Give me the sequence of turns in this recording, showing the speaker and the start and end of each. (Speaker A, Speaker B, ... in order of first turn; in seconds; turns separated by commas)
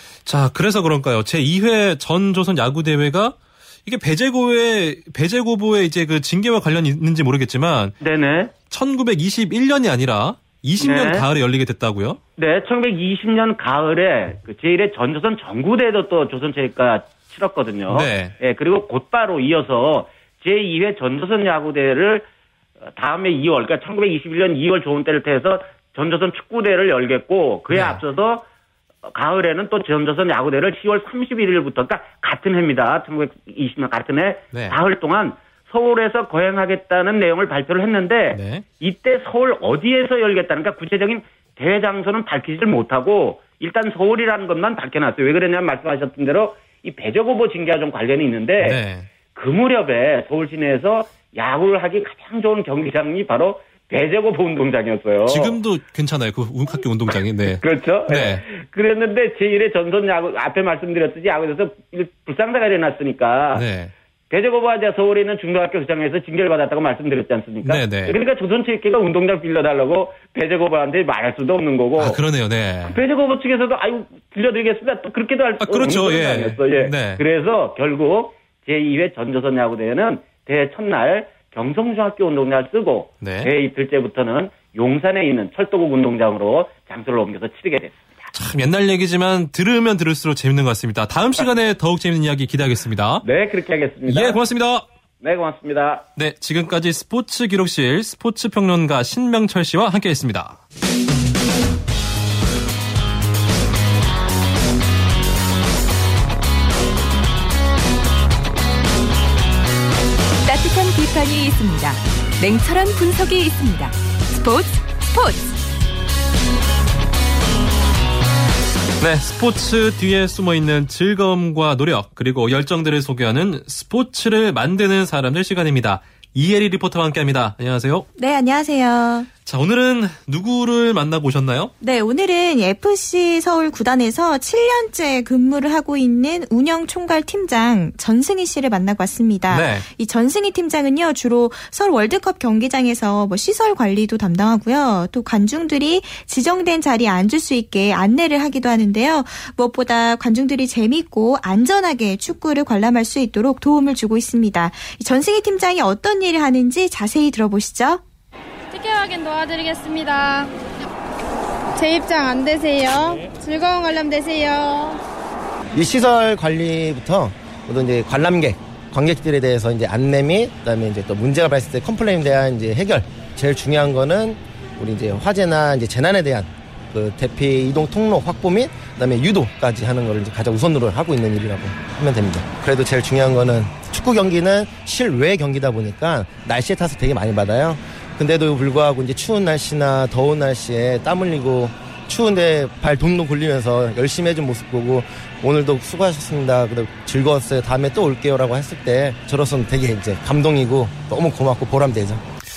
Speaker A: 0.2-7.9, Speaker B: 8.0-8.5, Speaker A: 8.7-12.2, Speaker B: 10.8-11.2, Speaker B: 12.4-22.3, Speaker A: 17.9-18.3, Speaker B: 22.9-28.4, Speaker A: 27.7-28.0, Speaker B: 29.1-48.8, Speaker A: 38.3-38.6, Speaker A: 48.6-49.1, Speaker B: 49.3-55.6, Speaker A: 55.2-58.4, Speaker B: 57.5-63.6, Speaker A: 63.5-63.9, Speaker B: 64.3-72.2, Speaker A: 67.6-68.2, Speaker A: 72.0-73.0, Speaker B: 72.8-88.0, Speaker A: 75.6-77.2, Speaker A: 83.2-83.5, Speaker A: 88.3-93.2, Speaker B: 93.2-94.4, Speaker A: 94.1-94.8, Speaker B: 95.2-96.1, Speaker A: 96.2-100.6, Speaker C: 110.5-115.5, Speaker A: 119.0-128.1, Speaker D: 128.2-129.3, Speaker A: 129.4-131.7, Speaker D: 131.8-158.0, Speaker A: 139.5-139.8, Speaker E: 158.7-160.5, Speaker E: 161.8-165.0, Speaker F: 165.7-202.2